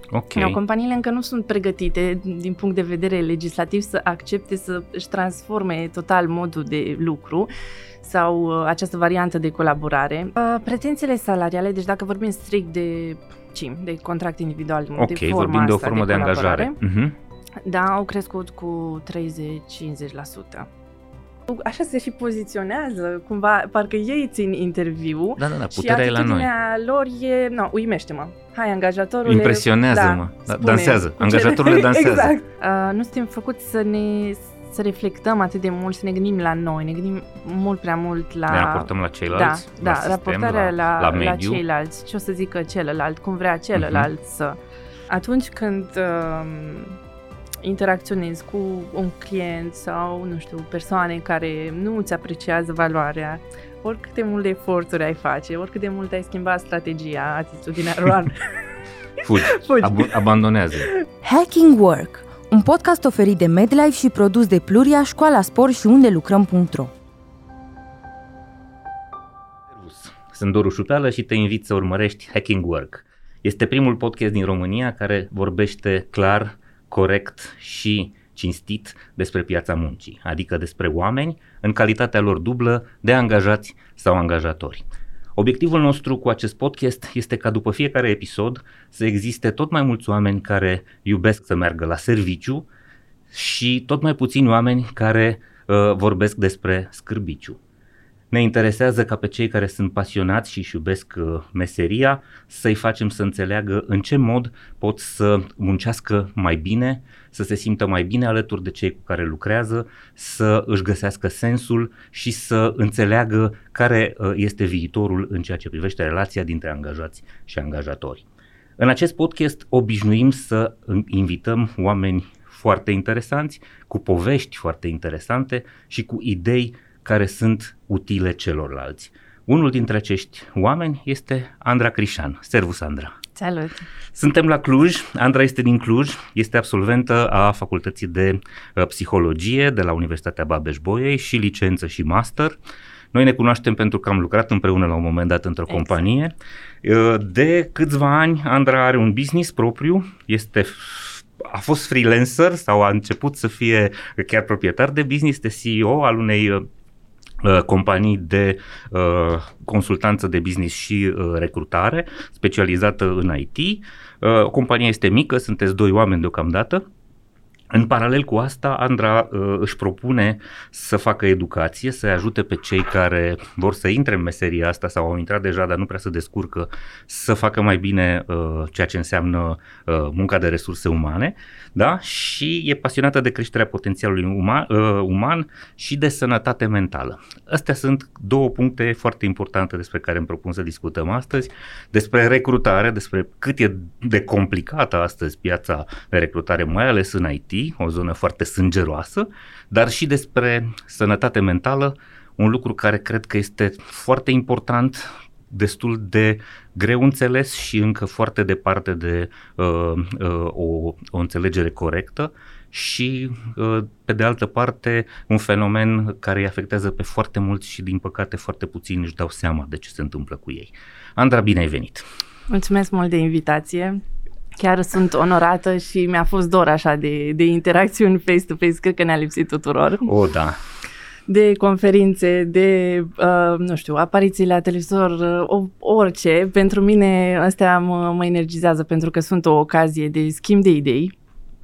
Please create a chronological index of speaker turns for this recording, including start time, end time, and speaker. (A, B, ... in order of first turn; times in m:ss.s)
0:00.1-0:00.6 A
0:00.3-0:07.5 B
0:08.0-0:16.8 B
0:15.0-0:17.2 A
0:17.6-0:20.7 B
0:21.5-0:47.0 B
0:25.4-0:26.5 A
0:29.2-0:32.4 A
0:38.5-0:41.6 A
0:43.8-0:44.1 A
0:47.6-0:58.5 B
0:59.2-1:00.9 A
0:59.5-1:00.1 B
1:01.2-1:06.9 C
1:09.7-1:24.8 A
1:25.4-1:32.7 A
1:33.3-1:37.6 A
1:38.3-1:58.2 A
1:58.8-2:13.2 A
2:13.4-2:13.9 B
2:14.1-2:22.6 A
2:23.1-2:36.6 A
2:37.4-2:46.8 A
2:47.7-3:42.0 A
3:42.5-3:44.0 B
3:44.6-3:50.1 B
3:50.0-3:50.6 A
3:51.3-4:01.1 B